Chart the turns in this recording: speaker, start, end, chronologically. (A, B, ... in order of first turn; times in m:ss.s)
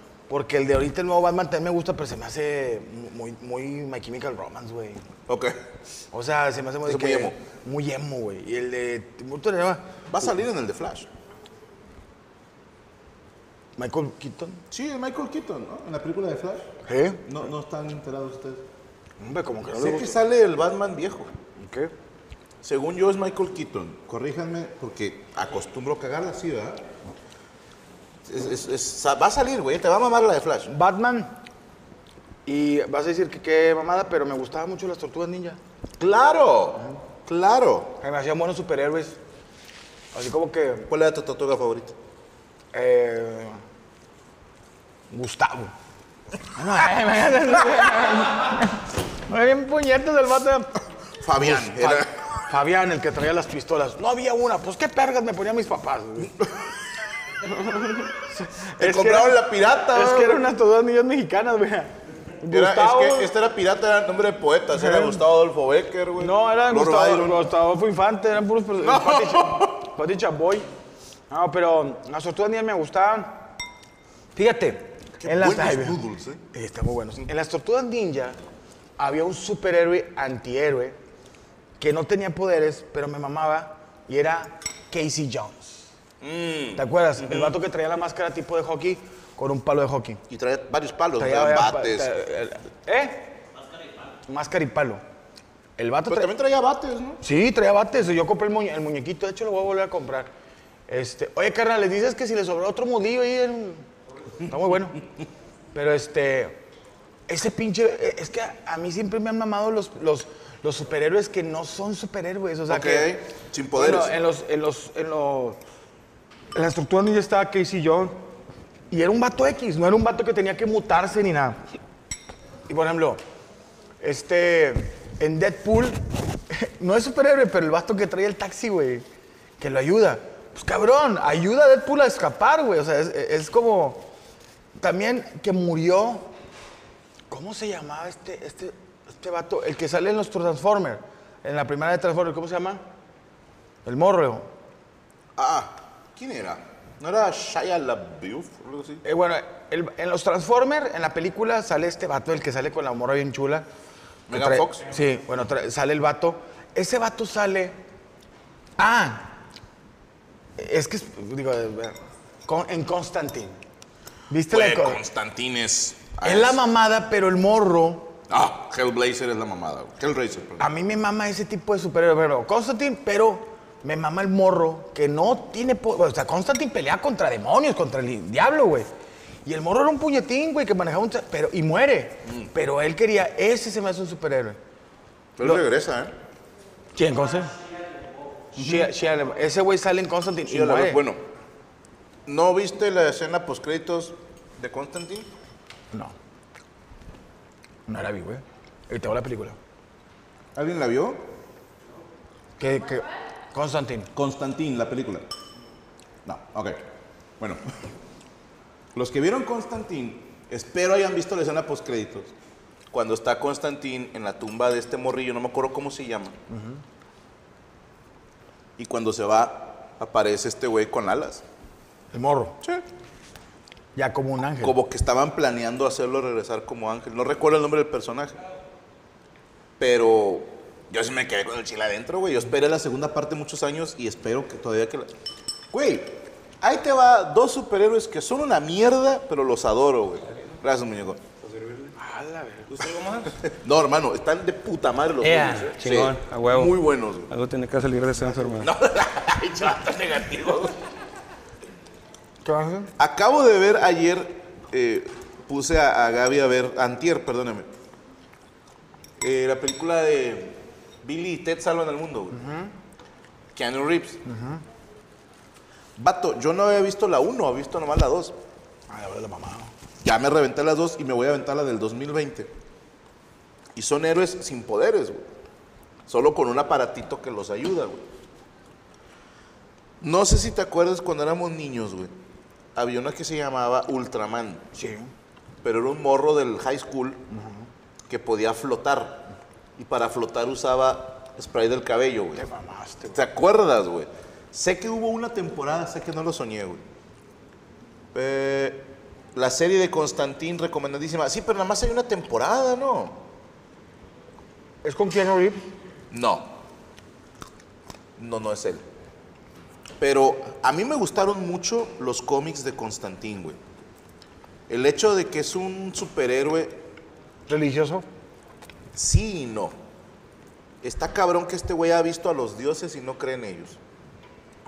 0:00.3-0:05.0 A
0:05.3-0:05.6 B
0:06.1-0:09.9 A
0:06.8-0:07.4 B
0:10.1-0:11.1 B
0:13.8-0:14.6 A
0:14.7-0:16.7 B
0:16.9-0:17.3 A
0:17.2-0:18.6 B
0:19.2-0:20.2 A
0:19.8-0:21.3 B
0:21.6-0:21.9 A
0:22.6-0:26.8 B
0:28.3-0:30.7 B
0:30.7-0:31.3 A
0:32.5-0:35.6 A
0:36.0-0:38.0 B
0:38.0-0:39.2 A
0:40.1-0:40.9 A
0:40.9-0:42.0 B
0:42.7-0:43.6 A
0:45.1-0:45.7 A
0:46.5-0:50.7 A
0:51.2-0:52.3 B
0:51.4-0:56.4 A
0:57.6-1:03.3 A
0:58.8-1:00.5 B
1:02.5-1:07.4 B
1:04.8-1:05.2 A
1:06.2-1:10.7 A
1:08.8-1:09.8 B
1:11.3-1:13.5 A
1:14.4-1:16.0 A
1:15.2-1:16.4 B
1:16.5-1:18.4 A
1:19.0-1:21.0 A
1:21.8-1:25.9 A
1:26.2-1:27.6 B
1:26.8-1:30.2 A
1:30.3-1:32.1 B
1:31.2-1:33.4 A
1:34.3-1:35.0 A
1:35.8-1:36.3 A
1:36.1-1:37.2 B
1:37.2-1:40.3 A
1:40.9-1:43.8 A
1:44.5-1:45.0 A
1:45.7-1:46.6 A
1:47.3-1:53.2 A
1:52.7-1:54.2 B
1:53.7-1:55.6 A
1:56.5-1:58.2 A
1:58.9-2:01.6 A
2:02.7-2:03.2 A
2:04.0-2:09.0 A
2:09.6-2:14.1 A
2:14.8-2:16.3 A
2:17.3-2:22.8 A
2:23.8-2:24.5 A
2:25.4-2:29.0 B
2:29.0-2:33.7 A
2:34.3-2:34.9 B
2:34.3-2:37.8 A
2:38.8-2:39.3 A
2:40.6-2:43.6 A
2:44.3-2:45.0 A
2:44.5-2:46.6 B
2:46.2-2:48.1 A
2:48.3-2:50.7 B
2:50.6-2:58.9 A
2:59.4-3:04.6 A
3:02.2-3:02.5 B
3:05.4-3:06.2 B
3:07.0-3:07.5 A
3:08.5-3:11.0 A
3:08.6-3:08.9 B
3:10.5-3:11.2 B
3:12.3-3:15.3 B
3:17.9-3:19.6 A
3:20.6-3:21.2 B
3:22.6-3:24.1 A
3:24.1-3:25.3 B
3:26.2-3:26.8 B
3:28.9-3:32.3 B
3:32.9-3:36.4 B
3:36.5-3:36.8 A
3:38.8-3:41.4 B
3:42.1-3:42.6 A
3:44.0-3:44.8 A
3:44.6-3:48.4 B
3:49.8-3:55.1 B
3:55.7-4:01.2 B
4:01.5-4:01.9 C
4:02.0-4:02.9 A
4:02.8-4:07.3 B
4:05.2-4:06.8 C
4:07.3-4:08.7 C
4:08.6-4:10.8 B
4:12.4-4:12.9 A
4:13.0-4:17.7 B
4:19.2-4:22.4 B
4:22.3-4:22.7 A
4:23.5-4:24.2 B
4:24.2-4:24.6 A
4:26.0-4:28.4 B
4:28.9-4:29.7 A
4:30.0-4:32.5 B
4:33.8-4:35.3 B
4:36.1-4:38.0 B
4:40.0-4:42.1 B
4:42.8-4:44.6 B
4:44.7-4:45.1 A
4:45.6-4:47.2 B
4:47.3-4:47.7 A
4:48.1-4:52.5 B
4:52.4-4:53.2 A
4:53.1-4:56.8 B
4:58.1-5:03.2 B
5:04.8-5:05.6 A
5:06.1-5:06.6 B
5:08.2-5:08.8 B
5:10.0-5:13.6 B
5:14.7-5:16.8 B
5:17.5-5:18.0 A
5:18.9-5:19.8 B
5:20.8-5:23.8 B